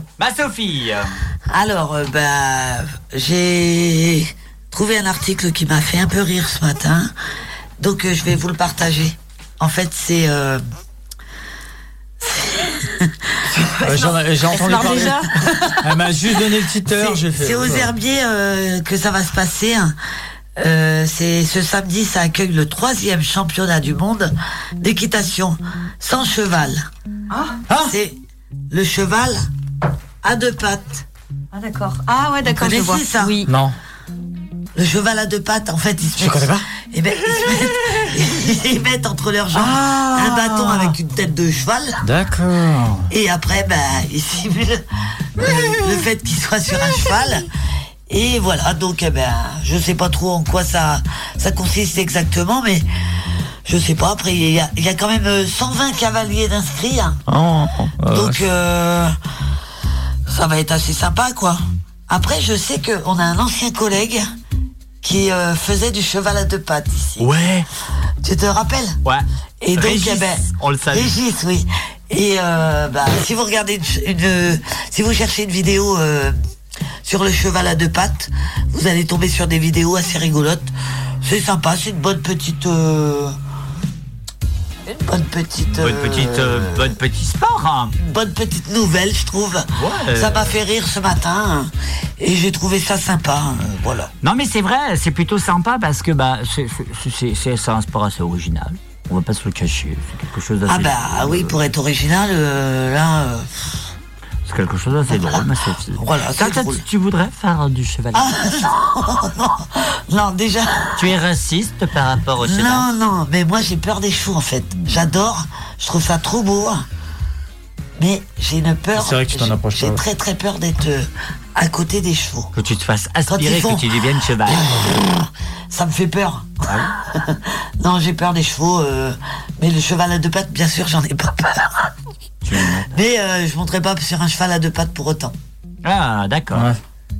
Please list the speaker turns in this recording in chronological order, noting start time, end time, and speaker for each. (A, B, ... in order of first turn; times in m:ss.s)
0:00.2-0:01.1 A
0:01.5-0:07.1 B
0:07.8-0:10.6 B
0:12.2-0:15.8 B
0:13.8-0:15.2 C
0:14.5-0:15.8 D
0:15.8-0:17.9 C
0:16.9-0:19.9 B
0:20.6-0:26.8 B
0:27.3-0:27.6 D
0:27.7-0:28.0 C
0:27.9-0:28.2 B
0:28.7-0:29.4 B
0:30.2-0:31.0 B
0:31.5-0:33.5 D
0:32.4-0:33.4 B
0:33.5-0:33.8 C
0:34.7-0:42.0 B
0:36.2-0:36.7 C
0:39.5-0:41.0 C
0:42.0-0:43.1 C
0:43.1-0:44.8 B
0:45.4-0:47.5 B
0:45.4-0:46.0 C
0:46.8-0:47.2 C
0:48.1-0:52.8 B
0:53.6-0:57.2 B
0:57.3-0:58.4 C
0:58.1-0:59.1 B
1:00.3-1:04.2 B
1:05.0-1:07.3 B
1:07.2-1:07.7 A
1:08.2-1:09.0 B
1:09.0-1:11.2 A
1:09.6-1:16.3 B
1:17.0-1:20.7 B
1:21.2-1:23.3 B
1:24.8-1:26.9 B
1:25.8-1:28.0 A
1:28.0-1:34.1 B
1:29.7-1:30.6 A
1:34.2-1:41.6 A
1:40.6-1:43.7 B
1:44.4-1:48.4 A
1:45.1-1:46.8 B
1:48.1-1:51.1 B
1:51.0-1:52.8 A
1:52.4-1:56.8 B
1:58.0-2:02.5 B
1:58.9-2:00.0 C
2:02.5-2:04.9 A
2:03.3-2:03.9 B
2:04.4-2:11.9 B
2:12.4-2:12.9 A
2:12.6-2:15.3 B
2:15.8-2:16.7 A
2:16.5-2:16.8 C